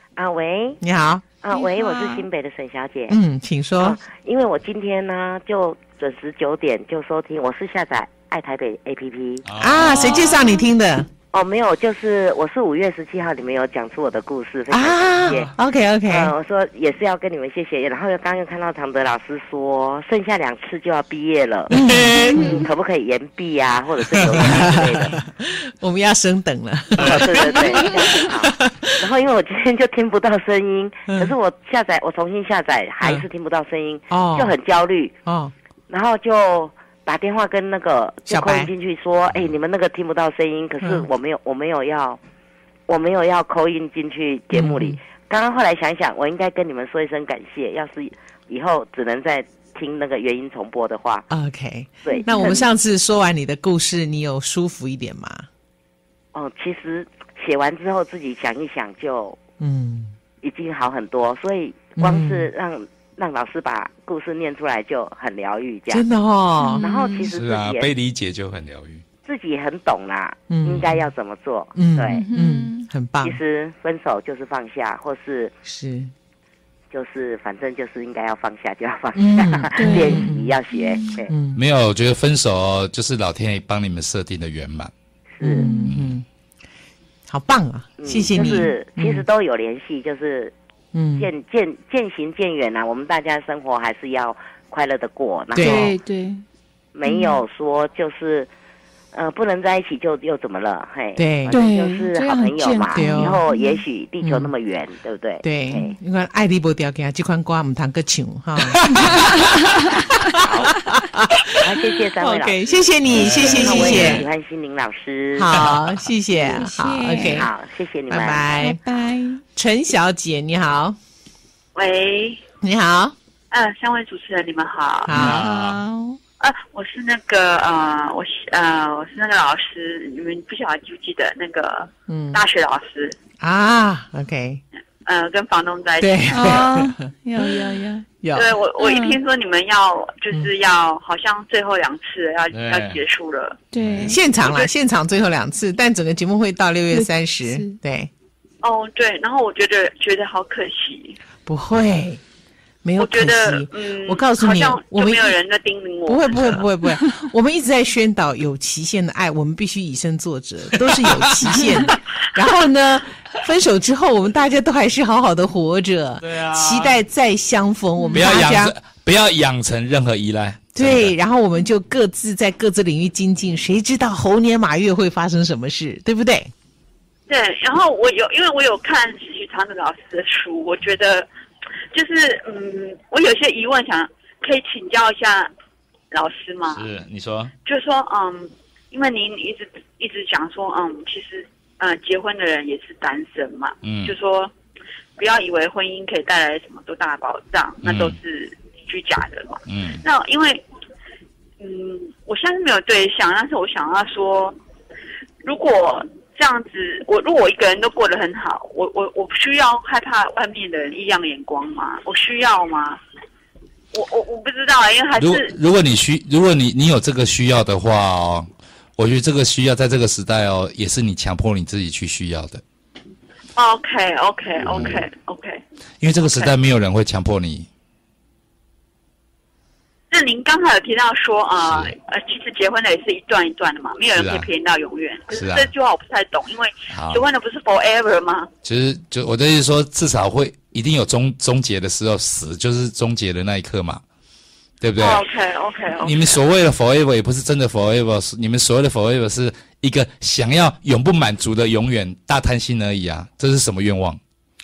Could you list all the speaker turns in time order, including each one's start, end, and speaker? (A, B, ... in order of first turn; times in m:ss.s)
0:00.2-0:00.8 A
0:00.8-0:01.3 B
0:01.4-0:03.2 A
0:01.5-0:02.3 C
0:03.1-0:04.0 B
0:03.8-0:09.5 A
0:09.5-0:10.6 D
0:09.6-0:11.1 B
0:11.3-0:15.5 A
0:14.7-0:16.3 B
0:16.1-0:25.2 A
0:21.7-0:22.7 B
0:21.9-0:22.7 C
0:24.3-0:29.1 B
0:27.0-0:27.2 D
0:27.0-0:35.2 A
0:34.1-0:34.6 B
0:35.2-0:35.5 B
0:35.9-0:42.2 A
0:38.3-0:38.7 B
0:42.9-0:51.3 A
0:44.5-0:45.0 B
0:51.3-0:55.5 B
0:52.0-0:52.6 A
0:52.2-0:52.6 C
0:56.3-0:59.4 A
0:59.6-1:00.2 B
1:00.4-1:06.1 A
1:02.0-1:02.5 B
1:05.9-1:06.9 B
1:06.6-1:07.3 C
1:06.8-1:07.9 A
1:07.3-1:09.0 D
1:09.2-1:12.3 A
1:10.5-1:11.1 B
1:11.8-1:13.4 B
1:12.1-1:12.9 C
1:13.2-1:15.5 A
1:15.6-1:16.1 B
1:16.9-1:21.3 A
1:19.2-1:20.6 B
1:19.8-1:21.2 C
1:21.3-1:21.6 B
1:21.6-1:24.9 D
1:25.4-1:25.7 A
1:25.4-1:26.2 B
1:25.4-1:25.9 C
1:25.9-1:26.2 D
1:27.3-1:29.2 B
1:28.0-1:30.5 A
1:30.9-1:31.3 B
1:31.2-1:35.9 A
1:35.5-1:35.9 B
1:35.6-1:36.4 C
1:37.0-1:38.5 A
1:37.0-1:37.4 C
1:39.1-1:46.0 A
1:41.2-1:41.6 B
1:41.5-1:43.8 C
1:43.0-1:43.4 B
1:44.2-1:44.5 B
1:45.4-1:54.3 B
1:50.4-1:50.9 A
1:51.5-1:55.7 A
1:53.1-1:54.2 D
1:55.4-1:57.5 B
1:55.6-1:56.0 D
1:56.4-1:57.4 C
1:57.3-1:58.6 A
1:58.1-1:58.8 B
1:58.6-1:59.4 C
1:59.5-2:01.0 B
2:01.8-2:02.4 E
2:02.6-2:03.2 B
2:03.5-2:05.1 E
2:05.1-2:05.4 B
2:05.1-2:05.8 D
2:05.1-2:06.2 C
2:06.4-2:13.2 E
2:12.1-2:12.4 B
2:13.4-2:14.6 B
2:15.0-2:16.6 E
2:16.0-2:17.6 B
2:16.3-2:18.1 C
2:18.2-2:18.6 B
2:18.3-2:23.6 E
2:18.8-2:19.2 C
2:22.5-2:23.0 D
2:23.7-2:24.2 C
2:23.8-2:24.2 D
2:24.0-2:28.1 B
2:24.3-2:24.7 E
2:26.9-2:27.8 C
2:28.6-2:31.2 E
2:31.5-2:32.2 B
2:32.8-2:35.4 B
2:33.0-2:36.6 E
2:36.1-2:48.8 B
2:40.8-2:41.5 D
2:41.6-2:41.9 C
2:46.2-2:47.0 D
2:48.0-2:48.3 C
2:48.1-2:51.2 D
2:50.8-2:56.5 B
2:57.3-3:01.3 E
3:01.9-3:05.5 E
3:06.1-3:06.9 E
3:06.7-3:07.5 D
3:07.6-3:14.5 E
3:13.8-3:14.2 D
3:15.2-3:20.6 E
3:17.8-3:18.2 D
3:19.7-3:20.0 D
3:21.6-3:24.6 E
3:25.4-3:33.0 E
3:33.9-3:35.5 E
3:35.2-3:42.6 D
3:43.6-3:45.6 E
3:44.6-3:45.0 D
3:46.0-3:47.7 D
3:50.1-3:58.5 E
3:51.7-3:52.0 D
3:54.1-3:54.5 D
3:55.3-3:55.7 D
3:56.9-3:57.2 D
3:58.6-4:04.0 D
4:04.8-4:05.2 D
4:05.0-4:06.4 E
4:06.0-4:14.2 D